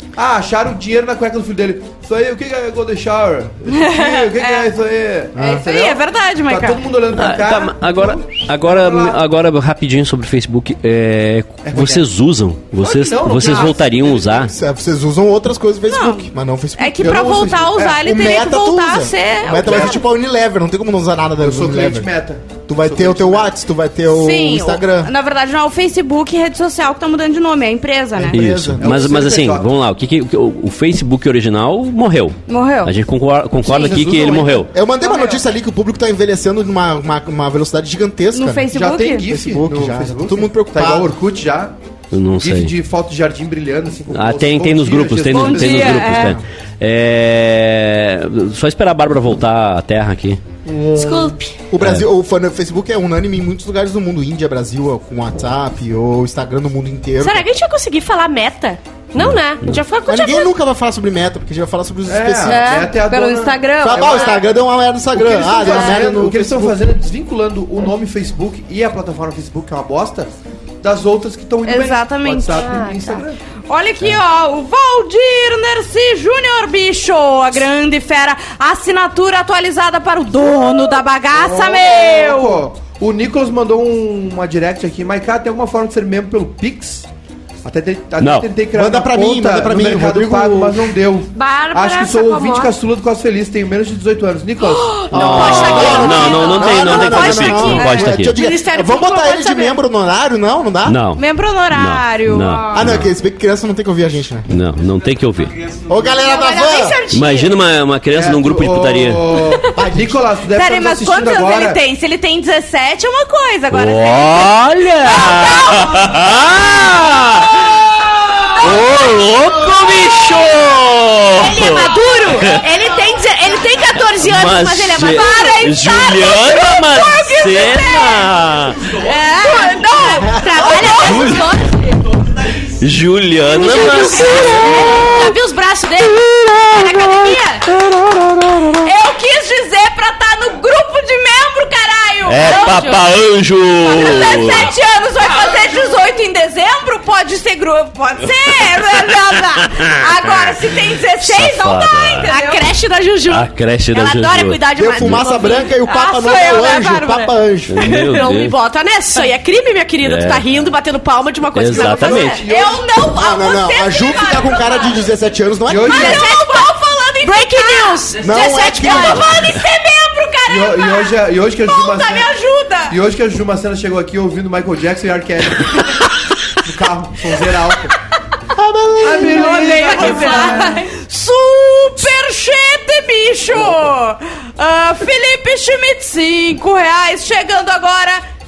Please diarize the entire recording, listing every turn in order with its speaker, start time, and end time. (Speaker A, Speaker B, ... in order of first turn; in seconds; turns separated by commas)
Speaker A: 0.2-9.2, Speaker B: 3.7-4.7, Speaker C: 5.4-5.7, Speaker B: 5.4-6.8, Speaker D: 7.1-14.5, Speaker A: 11.6-12.1, Speaker A: 12.8-14.5, Speaker B: 13.4-13.7, Speaker C: 14.3-17.4, Speaker B: 15.9-20.0, Speaker A: 17.0-18.1, Speaker C: 18.0-22.1, Speaker A: 19.5-20.0, Speaker A: 21.4-23.5, Speaker C: 22.7-25.1, Speaker B: 24.1-28.4, Speaker C: 28.1-29.0, Speaker D: 28.3-34.7, Speaker A: 28.8-29.7, Speaker B: 32.5-32.9, Speaker A: 33.6-34.7, Speaker C: 34.7-41.1, Speaker B: 38.3-39.3, Speaker A: 38.7-41.8, Speaker D: 42.1-42.7, Speaker A: 42.4-46.3, Speaker D: 44.1-50.4, Speaker B: 45.3-46.4, Speaker C: 46.1-46.4, Speaker A: 50.6-51.4, Speaker E: 51.0-51.5, Speaker C: 51.7-57.5, Speaker D: 51.8-52.0, Speaker E: 57.2-60.5, Speaker D: 59.2-59.8, Speaker C: 60.1-62.9, Speaker A: 62.1-64.6, Speaker B: 62.5-64.3, Speaker C: 63.8-66.8, Speaker A: 65.1-70.3, Speaker B: 65.6-65.9, Speaker A: 70.8-73.4, Speaker B: 71.6-72.9, Speaker E: 72.5-73.2, Speaker B: 73.7-82.6, Speaker A: 81.3-87.1, Speaker A: 87.6-96.3, Speaker D: 88.2-88.5, Speaker C: 88.7-91.0, Speaker E: 91.4-92.7, Speaker B: 91.4-92.7, Speaker B: 94.6-98.1, Speaker C: 95.1-101.0, Speaker D: 95.2-98.4, Speaker E: 95.5-99.8, Speaker D: 100.8-103.1, Speaker B: 101.2-102.9, Speaker C: 102.7-104.5, Speaker D: 104.5-105.5, Speaker C: 105.9-107.0, Speaker B: 106.2-107.5, Speaker E: 106.3-107.0, Speaker D: 107.1-109.4, Speaker A: 108.1-111.8, Speaker C: 109.7-110.2, Speaker B: 110.5-116.2, Speaker D: 113.7-117.9, Speaker B: 118.3-118.8, Speaker D: 118.5-122.6, Speaker E: 121.4-126.1, Speaker B: 121.4-122.7, Speaker D: 124.2-128.8, Speaker B: 125.1-128.3, Speaker B: 128.8-131.8, Speaker E: 129.0-132.0, Speaker D: 130.9-131.5, Speaker D: 132.6-135.0, Speaker B: 133.5-137.7, Speaker E: 133.8-135.2, Speaker D: 137.9-138.7, Speaker B: 138.7-143.1, Speaker D: 142.3-144.7, Speaker B: 143.8-152.7, Speaker D: 149.6-150.6, Speaker D: 151.2-152.3, Speaker E: 152.3-156.9, Speaker D: 153.3-155.2, Speaker C: 154.8-157.8, Speaker B: 155.8-157.3, Speaker D: 157.7-158.5, Speaker E: 157.8-164.6, Speaker D: 160.0-160.4, Speaker D: 161.6-162.4, Speaker A: 161.7-162.9, Speaker B: 162.1-164.9, Speaker C: 163.1-166.3, Speaker A: 165.7-166.3, Speaker E: 165.8-169.6, Speaker B: 166.2-173.0, Speaker C: 168.2-169.4, Speaker A: 170.5-172.4, Speaker A: 172.9-177.9, Speaker C: 178.5-179.8, Speaker A: 179.0-180.8, Speaker B: 179.0-188.2, Speaker E: 179.9-180.7